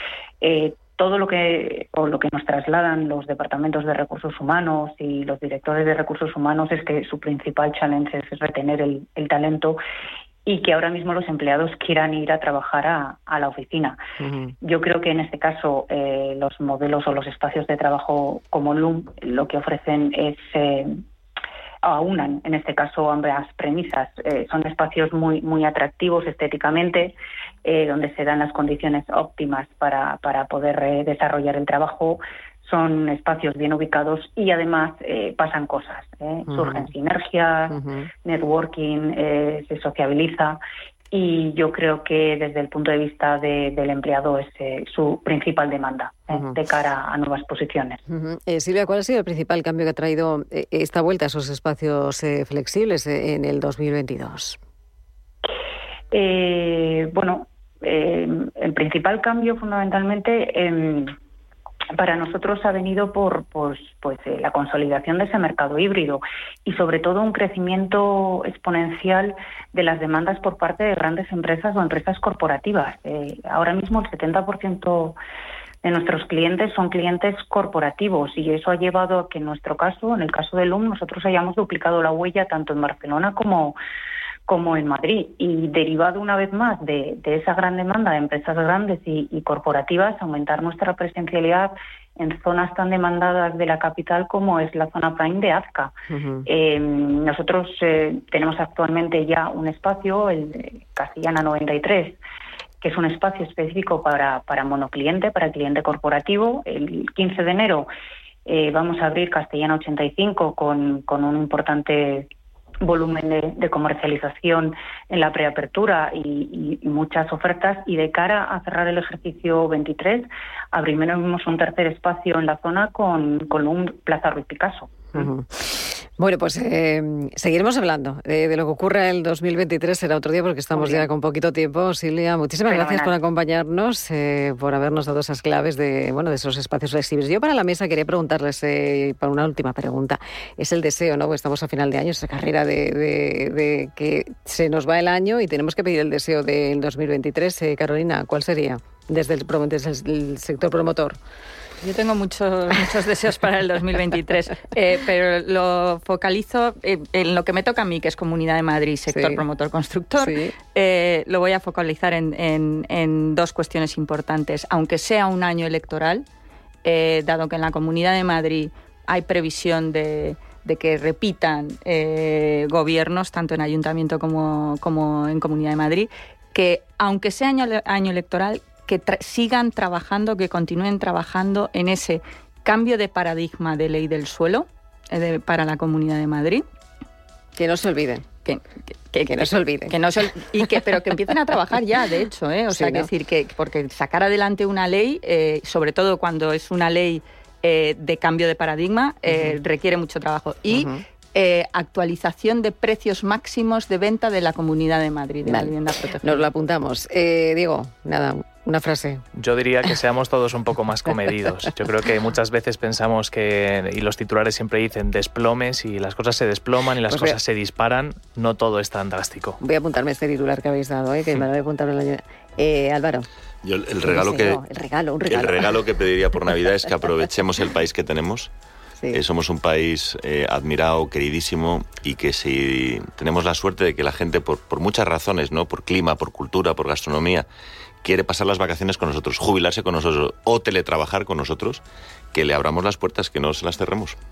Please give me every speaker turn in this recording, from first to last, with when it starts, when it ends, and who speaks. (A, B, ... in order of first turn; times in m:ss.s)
0:00.4-0:09.8 A
0:10.4-0:14.0 A
0:14.2-0:14.5 B
0:14.6-0:21.0 A
0:21.8-0:40.6 A
0:36.5-0:36.9 B
0:37.7-0:38.1 B
0:41.1-0:48.0 A
0:48.1-0:54.6 B
0:56.1-1:01.1 A
1:02.0-1:15.2 A
1:15.8-1:23.8 A
1:24.5-1:35.9 A
1:36.1-1:36.5 B
1:36.4-1:42.2 A
1:42.8-1:47.9 A
1:48.4-1:52.3 A
1:52.8-2:05.3 A
2:05.1-2:31.2 B
2:10.7-2:11.0 A
2:12.7-2:13.1 A
2:31.8-2:46.2 C
2:39.1-2:39.4 B
2:40.2-2:40.5 B
2:46.8-3:06.6 C
3:07.6-3:08.2 B
3:08.4-3:26.4 C
3:09.3-3:10.0 B
3:12.7-3:13.1 B
3:19.3-3:19.6 B
3:20.7-3:21.0 B
3:25.4-3:29.2 B
3:29.4-3:39.6 D
3:37.1-3:37.4 B
3:39.6-3:43.3 B
3:43.6-3:44.6 E
3:44.0-3:45.8 B
3:45.3-3:48.5 E
3:49.1-3:57.5 E
3:58.0-4:01.8 E
4:02.3-4:04.2 E